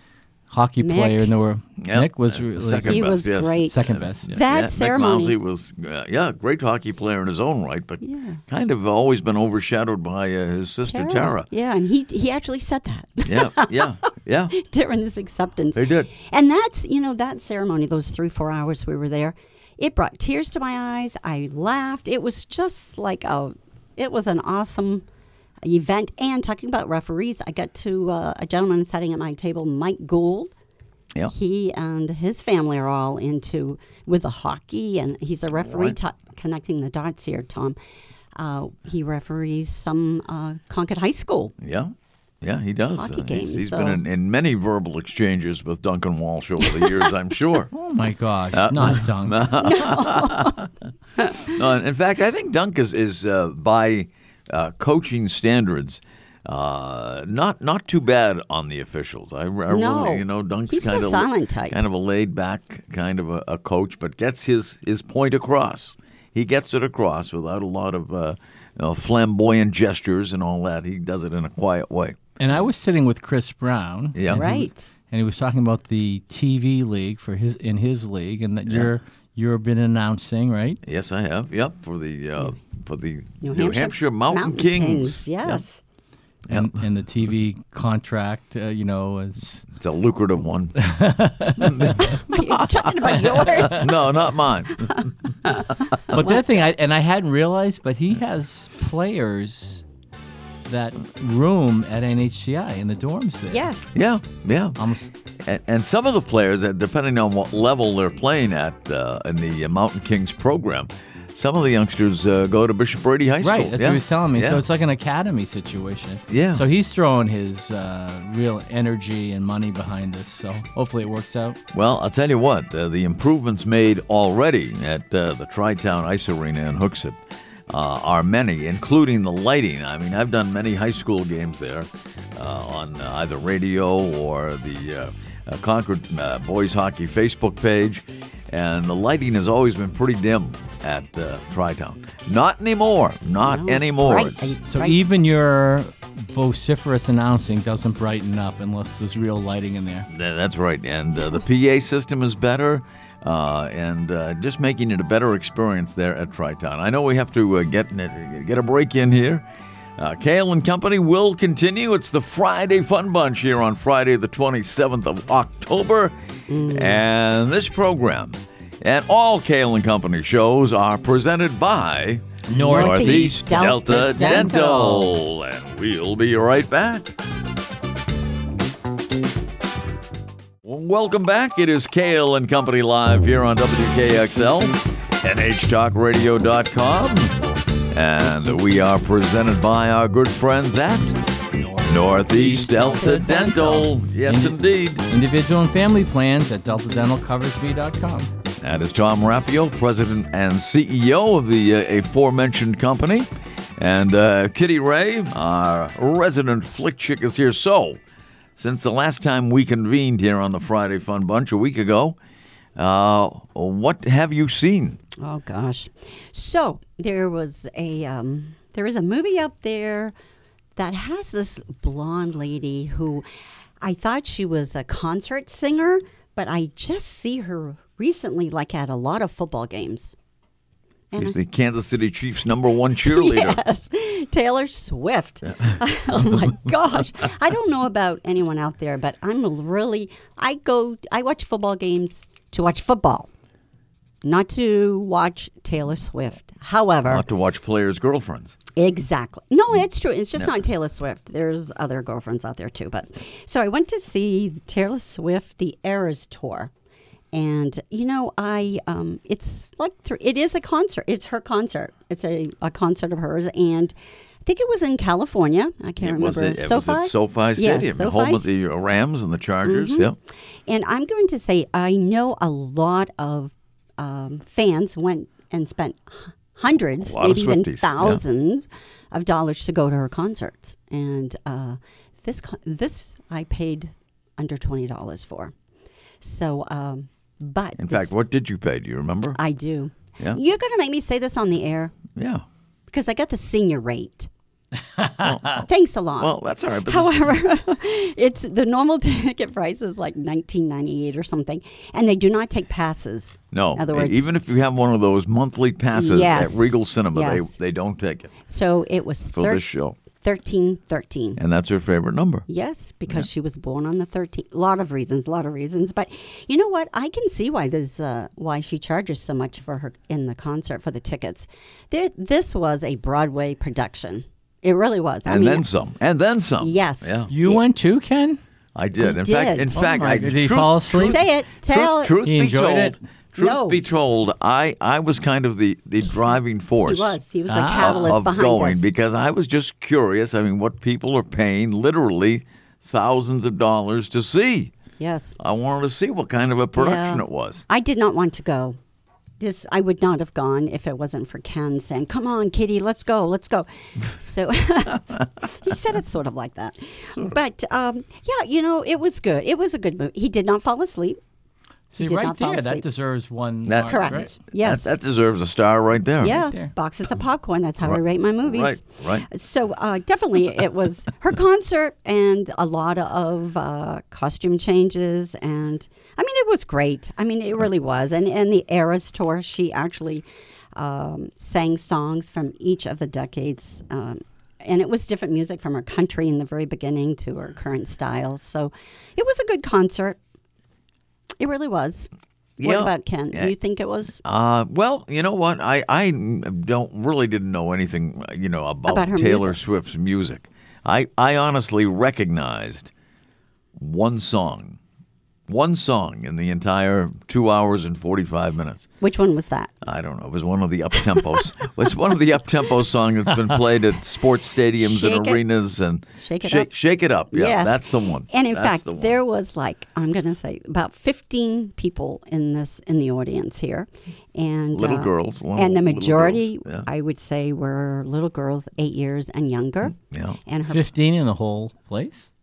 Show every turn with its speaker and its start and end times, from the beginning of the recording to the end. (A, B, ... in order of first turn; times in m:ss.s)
0:00.5-0:04.4 A
0:00.8-0:01.3 B
0:01.8-0:11.5 C
0:02.9-0:05.4 B
0:08.0-0:08.4 B
0:10.8-0:14.0 B
0:13.2-0:14.6 C
0:14.5-0:25.0 B
0:15.8-0:16.1 C
0:25.6-0:30.5 B
0:31.3-0:37.8 B
0:35.6-0:36.0 C
0:38.4-0:41.5 B
0:41.6-0:47.7 C
0:43.0-0:44.0 B
0:46.6-0:47.1 B
0:47.7-0:49.5 A
0:48.5-0:50.7 C
0:49.6-0:50.6 B
0:51.2-0:51.6 B
0:51.4-1:12.2 C
0:59.7-1:01.8 B
1:12.4-1:20.8 A
1:14.2-1:14.5 C
1:14.3-1:14.9 B
1:20.8-1:25.6 C
1:23.4-1:25.8 B
1:26.5-1:26.8 C
1:26.5-1:29.7 A
1:29.8-1:30.8 C
1:30.8-1:32.2 A
1:31.6-1:32.4 C
1:32.0-1:33.9 B
1:33.1-1:35.1 C
1:33.2-1:33.8 A
1:34.9-1:36.6 B
1:36.1-1:39.8 A
1:40.7-1:43.7 A
1:43.5-1:44.0 B
1:44.0-1:44.8 C
1:44.8-1:45.1 A
1:45.4-1:54.6 C
1:53.4-2:01.6 A
1:56.3-1:56.6 C
2:01.7-2:24.6 C
2:23.4-2:25.1 B
2:24.7-2:30.1 A
2:30.1-2:39.4 C
2:40.0-2:46.2 C
2:46.5-2:47.0 B
2:46.7-2:57.1 C
2:52.5-2:55.2 A
2:52.6-2:54.9 B
3:00.6-3:07.4 C
3:07.9-3:11.2 C
3:11.6-3:18.3 A
3:11.8-3:15.0 C
3:18.6-3:28.0 C
3:28.6-3:32.2 C
3:32.8-3:35.0 C
3:35.2-3:40.1 B
3:40.8-3:43.2 B
3:43.8-3:50.2 B
3:51.2-3:53.6 C
3:53.0-4:03.3 B
3:55.5-3:55.8 C
4:04.2-4:07.2 B
4:07.0-4:08.6 C
4:08.8-4:16.7 B
4:17.3-4:28.5 B
4:26.0-4:30.2 C
4:29.6-4:30.1 B
4:30.7-4:45.5 B
4:37.0-4:38.2 C
4:46.2-4:48.1 B
4:47.8-4:49.4 C
4:49.4-4:52.0 B
4:52.2-4:52.4 C
4:52.9-4:54.3 B
4:55.0-4:55.4 A
4:55.2-4:55.6 C
4:55.5-5:04.3 B
4:56.2-4:57.4 C
5:03.5-5:08.3 C
5:05.9-5:07.6 B
5:08.5-5:11.4 B
5:09.3-5:10.0 C
5:11.4-5:12.5 C
5:12.5-5:25.6 B
5:25.3-5:27.3 C
5:26.6-5:27.6 B
5:27.3-5:28.4 A
5:28.8-5:37.2 C
5:29.0-5:29.8 B
5:29.8-5:31.2 A
5:30.9-5:32.2 B
5:32.2-5:33.0 A
5:33.4-5:33.8 B
5:36.8-5:38.9 B
5:37.5-5:38.1 A
5:37.8-5:44.7 C
5:45.0-5:45.4 B
5:45.4-5:47.6 C
5:46.8-5:48.8 B
5:49.4-6:01.2 B
6:01.9-6:04.3 A
6:02.0-6:02.8 B
6:03.7-6:06.4 C
6:03.9-6:05.0 B
6:06.2-6:30.2 B
6:06.2-6:06.7 A
6:07.8-6:09.3 C
6:31.4-6:32.1 B
6:32.6-6:33.5 C
6:32.6-6:34.2 B
6:34.2-6:42.9 C
6:38.9-6:39.6 B
6:43.8-6:44.8 C
6:45.5-6:48.9 C
6:49.0-6:49.7 B
6:49.8-6:59.2 C
6:51.1-6:51.4 B
6:54.8-6:55.4 B
6:56.2-6:56.7 B
6:57.3-7:10.8 B
7:04.7-7:06.9 C
7:10.0-7:10.4 C
7:10.7-7:12.3 A